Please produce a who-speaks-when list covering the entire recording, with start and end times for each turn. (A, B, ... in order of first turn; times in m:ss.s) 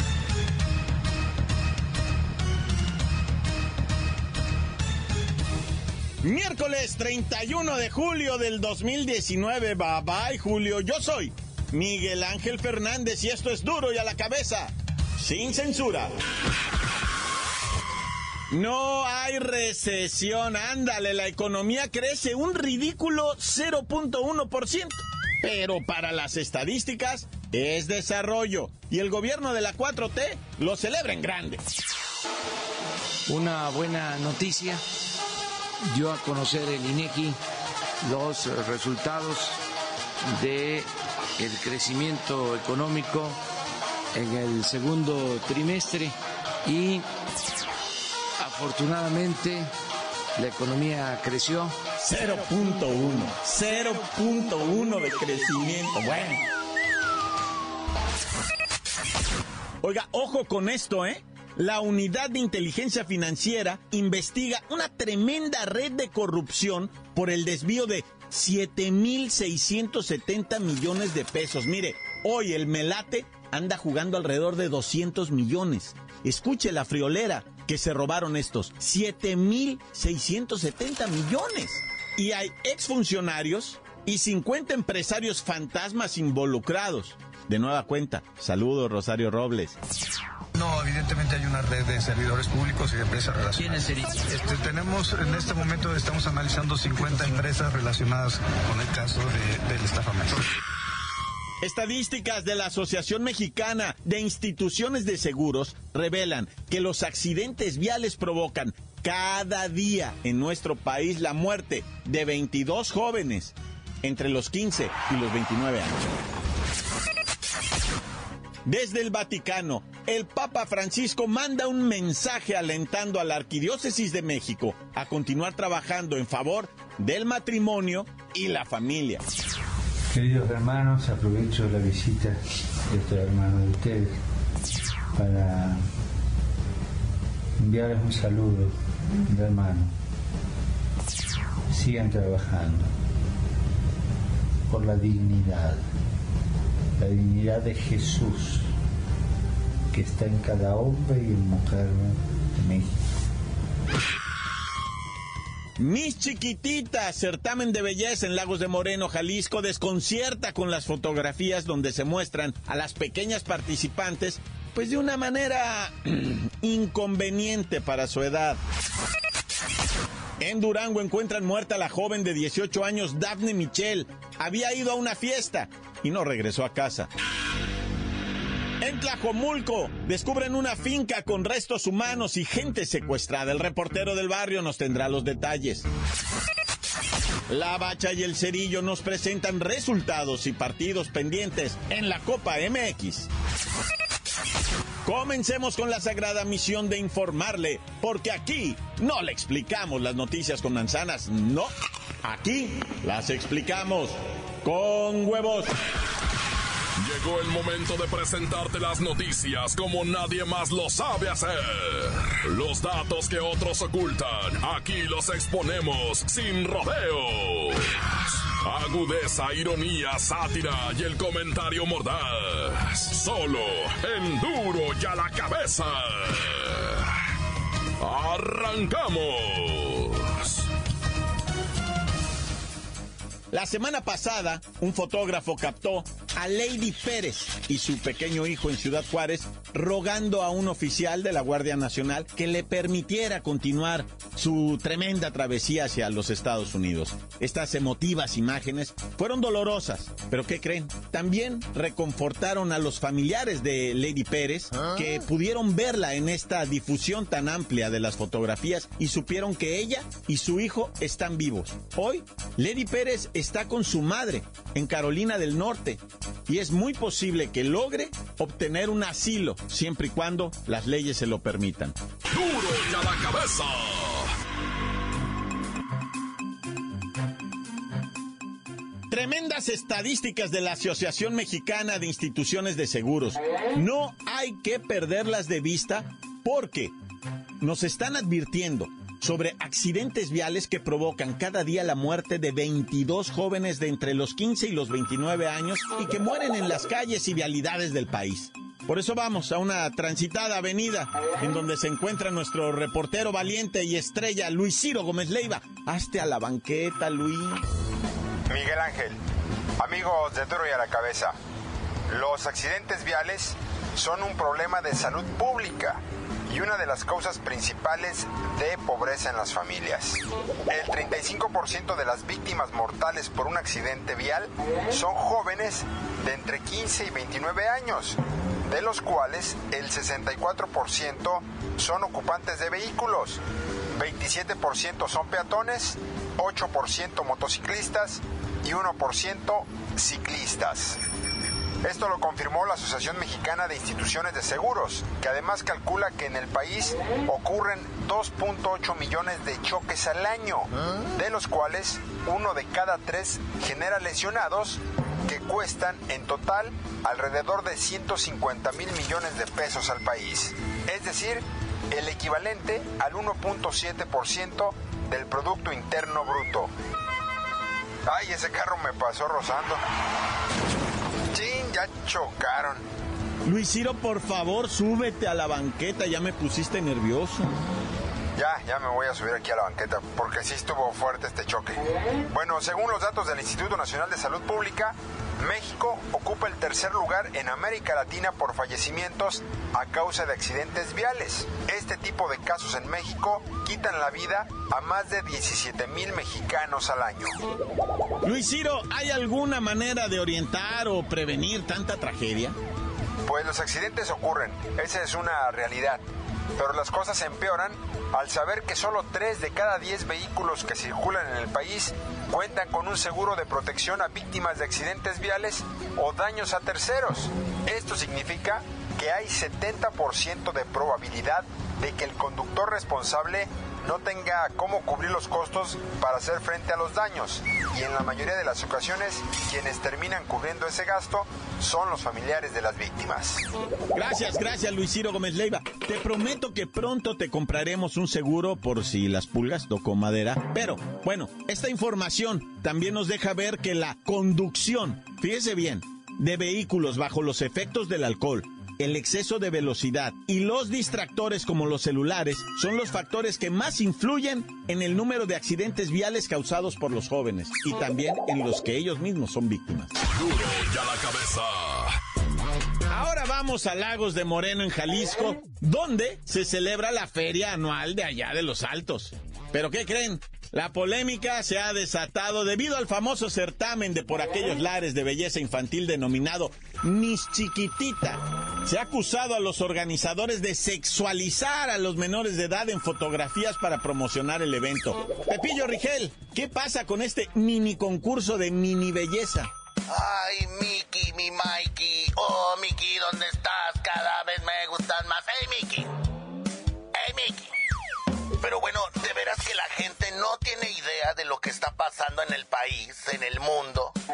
0:06.2-0:16.1 A
0:18.5-0:31.6 A
0:33.3-0:34.8 B
0:35.9-0:37.4 B
0:38.0-0:39.6 B
0:40.3-0:43.4 B
0:44.2-0:47.0 B
0:48.4-0:49.7 B
0:50.4-0:51.7 B
0:52.0-0:56.4 A
0:59.8-1:29.8 A
1:30.6-1:40.4 C
1:33.7-1:34.1 B
1:41.6-1:56.1 A
1:58.6-2:09.2 A
2:10.1-2:12.4 D
2:12.9-2:14.1 D
2:15.1-2:15.8 D
2:17.6-2:18.7 D
2:19.2-2:19.9 D
2:21.7-2:22.9 D
2:24.7-2:25.8 D
2:27.0-2:28.6 D
2:29.9-2:32.9 D
2:35.8-2:48.6 A
2:50.4-2:57.1 A
2:58.8-3:05.9 A
3:07.5-3:13.3 A
3:15.0-3:21.7 A
3:22.2-3:25.7 A
3:27.0-3:47.2 E
3:48.0-3:50.6 E
3:53.5-4:32.0 A
4:32.3-4:34.3 E
4:39.1-4:46.9 A
4:47.6-5:07.6 A
5:08.5-5:09.2 F
5:09.8-5:11.4 F
5:12.1-5:33.4 F
5:34.0-5:41.0 F
5:41.8-6:06.7 F
6:08.1-6:09.8 F
6:11.3-6:12.8 F
6:13.4-6:17.6 A
6:18.4-6:37.4 F
6:38.2-6:42.6 A
6:43.2-6:46.0 F
6:46.6-7:13.4 F
7:13.9-7:39.9 A
7:40.1-7:42.0 E
7:42.9-8:09.5 A
8:09.9-8:15.9 G
8:16.9-8:17.5 G
8:18.4-8:24.0 G